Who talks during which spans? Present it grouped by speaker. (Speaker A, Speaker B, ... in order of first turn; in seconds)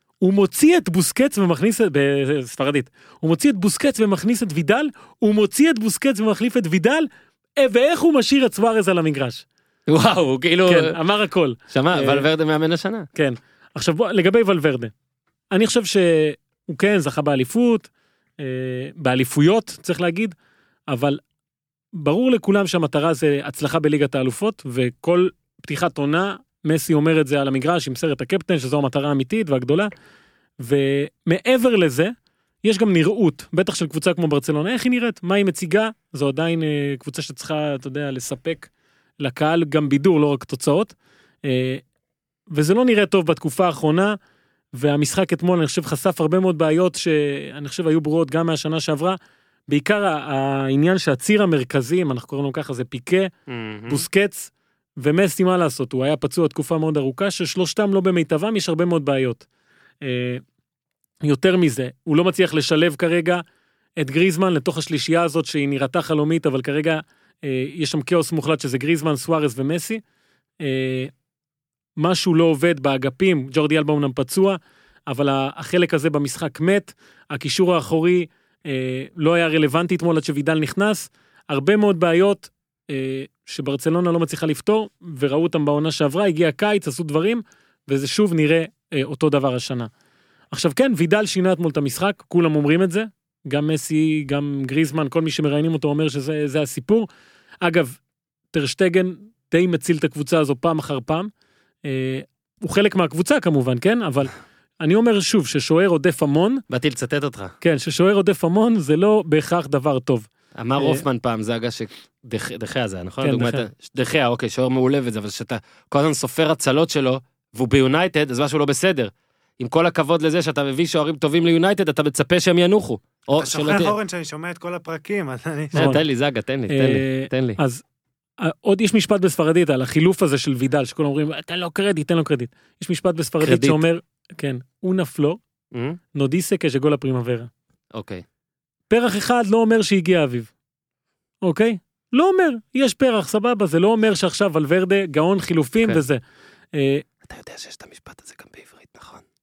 Speaker A: 0.2-9.4, 10.7-12.2, 13.2-14.9, 15.5-17.9, 18.4-20.3, 20.9-21.2, 21.9-29.9, 30.6-32.1, 32.6-38.7, 39.2-40.9, 41.5-41.8, 42.5-44.2, 44.7-49.2, 49.7-53.3, 53.9-59.5, 60.0-60.4, 61.2-63.4, 64.0-70.0, 70.6-71.1, 72.0-89.9, 90.5-97.1, 97.6-98.0, 98.5-101.3, 101.8-106.6, 107.6-111.0, 113.2-113.7, 125.8-126.0, 126.7-127.8, 128.4-135.4, 136.1-137.5, 138.9-140.5, 141.4-146.2, 146.7-147.0
Speaker B: 9.9-10.9, 11.7-13.1, 53.5-54.0, 106.7-107.5, 110.6-124.0, 125.7-127.6, 133.4-133.8, 135.7-136.0, 137.9-138.2, 147.2-149.2
Speaker C: 123.4-126.0